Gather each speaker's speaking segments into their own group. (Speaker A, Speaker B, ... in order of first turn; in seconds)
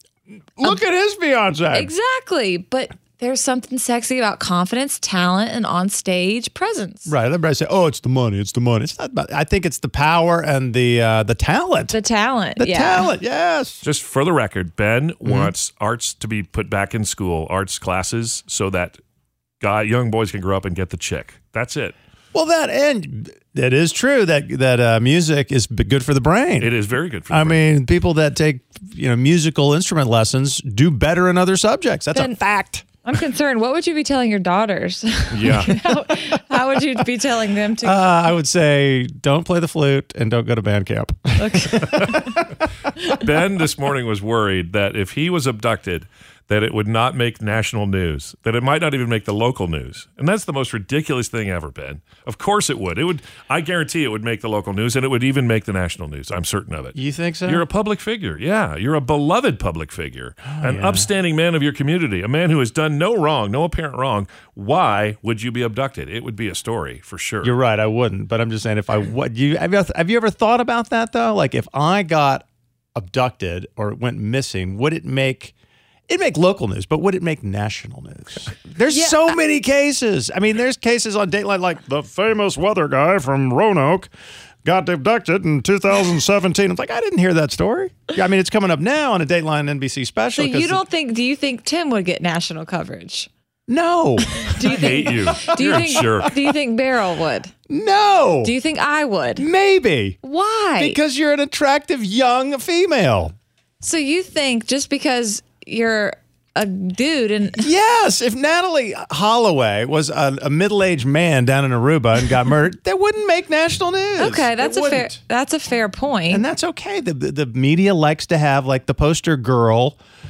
Speaker A: 0.6-1.9, 7.1-12.0, 12.6-13.8, 15.2-15.5, 22.3-26.7, 27.3-32.4, 37.8-42.5, 57.0-57.6, 60.5-61.1, 67.4-75.5, 76.1-84.1, 84.7-90.8, 93.7-94.9, 95.7-96.2, 97.7-98.5, 99.4-100.2, 100.8-103.3, 107.6-115.2, 116.3-120.0
Speaker B: 1.7-7.1, 11.9-13.1, 32.1-38.1, 41.4-42.5, 78.9-79.3, 90.4-93.3, 94.3-97.5, 98.4-99.5, 100.2-101.0, 103.8-107.7, 114.2-116.5
Speaker C: 13.8-19.0, 19.6-21.9, 26.6-27.6, 35.3-35.8, 43.0-67.5, 94.6-96.4